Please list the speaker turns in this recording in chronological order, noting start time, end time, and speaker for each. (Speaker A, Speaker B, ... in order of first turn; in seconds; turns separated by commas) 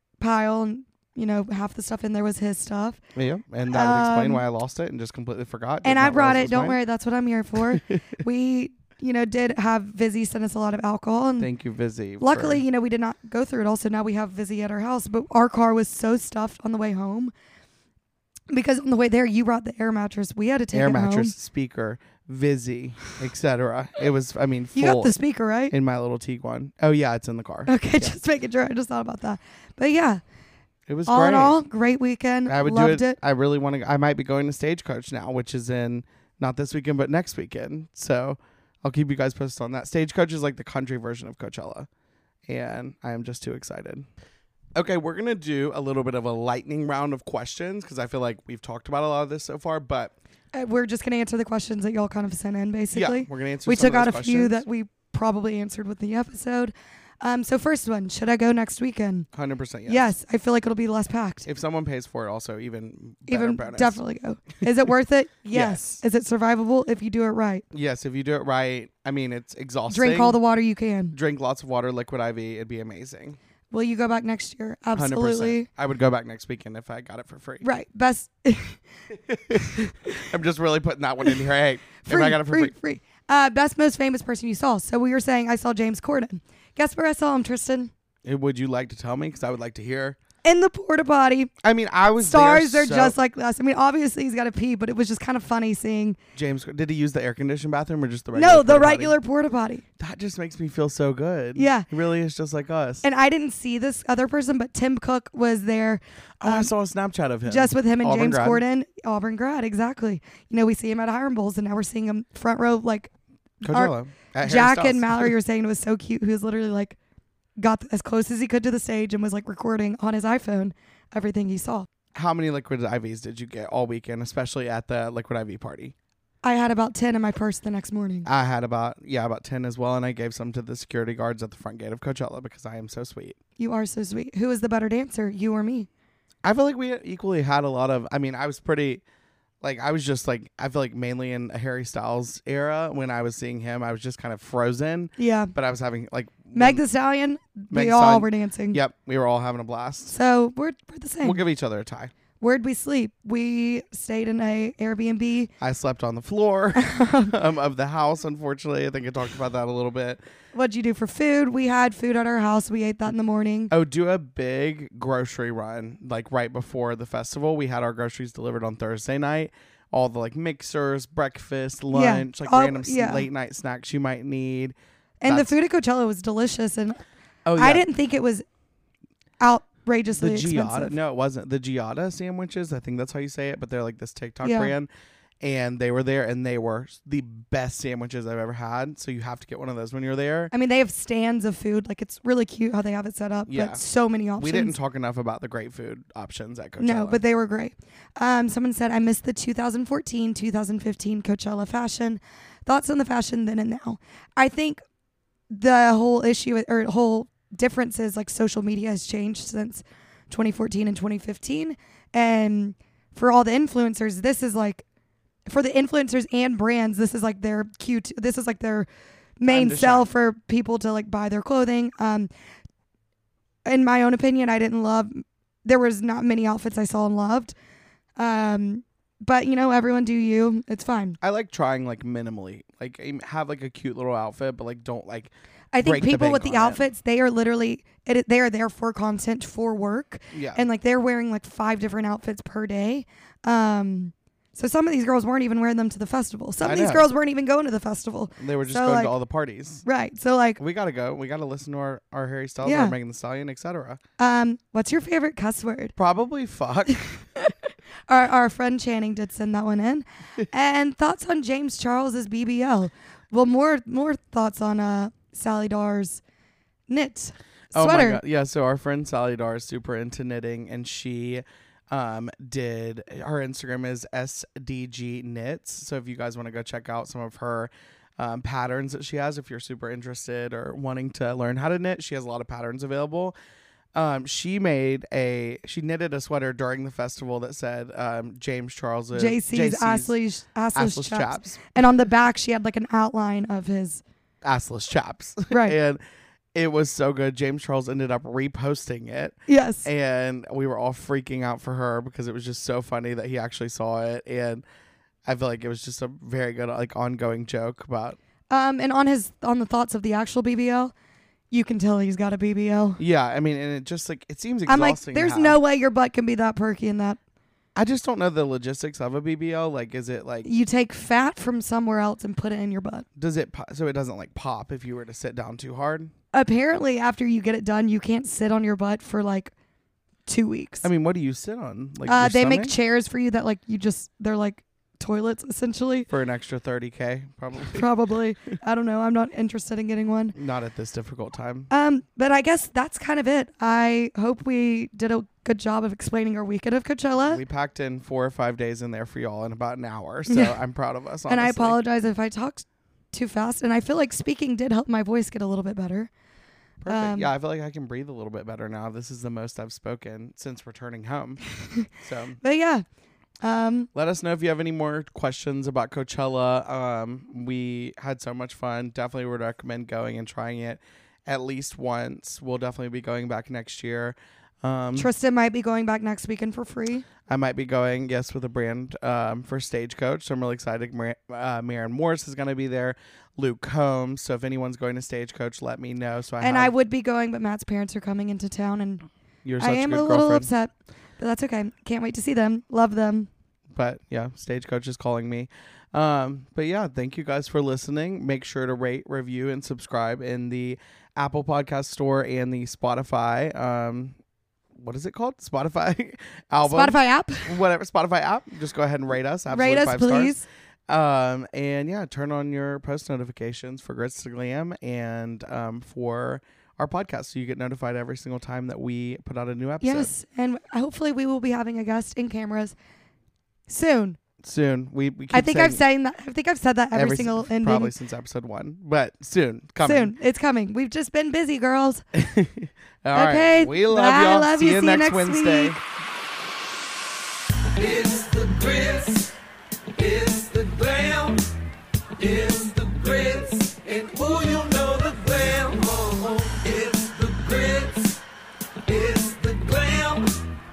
Speaker A: 0.2-3.0, Speaker B: 3.1-6.8, Speaker A: 3.7-4.4, Speaker A: 5.8-11.5, Speaker B: 11.4-12.6, Speaker A: 12.2-17.3, Speaker A: 18.5-21.3, Speaker B: 20.7-25.2, Speaker A: 24.8-25.7, Speaker B: 25.7-28.1, Speaker A: 27.7-30.2, Speaker B: 30.9-31.6, Speaker A: 31.1-33.2, Speaker B: 32.5-41.9, Speaker B: 42.5-44.1, Speaker B: 44.8-50.1, Speaker A: 50.5-59.3, Speaker B: 52.9-54.6, Speaker B: 59.3-60.1, Speaker A: 59.9-61.5, Speaker B: 61.5-64.0, Speaker A: 63.3-67.7, Speaker B: 65.5-66.0, Speaker B: 67.7-70.4, Speaker A: 69.9-71.2, Speaker B: 71.1-73.4, Speaker A: 73.7-75.7, Speaker B: 75.0-77.7, Speaker A: 77.6-78.8, Speaker B: 79.3-82.7, Speaker A: 79.5-80.3, Speaker A: 82.0-87.9, Speaker B: 88.2-90.2, Speaker A: 90.4-91.5, Speaker B: 91.6-93.2, Speaker A: 92.2-96.2, Speaker B: 96.3-99.2, Speaker A: 98.3-99.8, Speaker B: 100.0-103.0, Speaker A: 101.5-101.9, Speaker A: 103.0-106.7, Speaker B: 106.4-108.6, Speaker A: 107.5-113.1, Speaker B: 113.6-115.3, Speaker A: 113.7-117.0, Speaker A: 117.6-121.9, Speaker B: 122.1-125.9, Speaker A: 126.4-128.3, Speaker B: 128.2-133.4, Speaker A: 133.6-135.9, Speaker B: 136.4-139.0, Speaker B: 139.6-146.8, Speaker A: 145.2-145.5, Speaker A: 146.6-148.8, Speaker B: 147.7-150.1, Speaker A: 150.1-151.4, Speaker B: 151.2-152.1, Speaker A: 152.4-155.5, Speaker B: 155.6-160.2, Speaker A: 156.8-157.3, Speaker A: 160.6-163.7, Speaker B: 163.7-175.6, Speaker A: 171.9-173.3, Speaker A: 175.2-177.0, Speaker B: 177.5-177.8, Speaker A: 177.6-178.4, Speaker A: 179.4-181.0, Speaker B: 180.2-184.9, Speaker A: 184.4-184.7, Speaker B: 185.4-190.5, Speaker A: 190.5-194.7, Speaker B: 193.5-193.8, Speaker B: 194.4-197.2, Speaker A: 196.8-204.8, Speaker A: 205.5-214.8, Speaker A: 215.5-218.9, Speaker A: 219.4-222.3, Speaker B: 219.5-220.1, Speaker A: 223.7-227.6, Speaker A: 228.2-231.2, Speaker B: 231.2-236.8, Speaker A: 235.7-249.1, Speaker B: 240.3-240.7, Speaker B: 246.6-247.1, Speaker B: 248.4-249.9, Speaker A: 249.9-250.6, Speaker B: 250.6-254.0, Speaker A: 252.6-252.9, Speaker A: 254.2-255.9, Speaker B: 256.0-257.0, Speaker A: 256.9-266.2, Speaker A: 266.9-268.2, Speaker B: 267.7-283.4, Speaker B: 283.9-290.1, Speaker A: 289.1-294.0, Speaker B: 290.7-291.7, Speaker B: 294.4-296.0, Speaker A: 295.5-295.8, Speaker B: 296.5-304.6, Speaker A: 299.5-299.9, Speaker B: 305.3-308.2, Speaker A: 308.5-310.9, Speaker A: 311.5-313.0, Speaker B: 313.0-315.6, Speaker A: 314.7-317.2, Speaker B: 317.8-320.5, Speaker A: 320.4-323.1, Speaker B: 323.2-326.1, Speaker A: 326.3-329.5, Speaker A: 330.3-330.9, Speaker B: 330.8-332.8, Speaker A: 332.1-336.1, Speaker B: 336.1-337.9, Speaker A: 337.7-340.4, Speaker B: 340.4-341.7, Speaker A: 341.7-347.4, Speaker B: 347.3-351.8, Speaker A: 350.3-350.6, Speaker A: 351.3-356.1, Speaker B: 356.8-361.4, Speaker A: 356.9-357.3, Speaker B: 362.0-362.4, Speaker A: 362.4-362.8, Speaker A: 363.4-363.9, Speaker B: 363.9-375.1, Speaker A: 375.0-377.1, Speaker B: 377.3-386.7, Speaker A: 386.4-389.1, Speaker B: 389.4-390.5, Speaker A: 389.6-393.3, Speaker B: 393.8-404.2, Speaker B: 404.8-420.1, Speaker A: 406.7-407.6, Speaker A: 409.5-410.4, Speaker A: 419.8-422.8, Speaker A: 423.7-424.2, Speaker B: 424.4-425.8, Speaker A: 425.3-427.9, Speaker B: 426.9-430.1, Speaker A: 429.8-432.0, Speaker B: 432.1-435.8, Speaker A: 433.1-435.8, Speaker C: 437.7-439.4, Speaker C: 439.9-441.5, Speaker C: 442.2-448.2, Speaker C: 448.9-450.4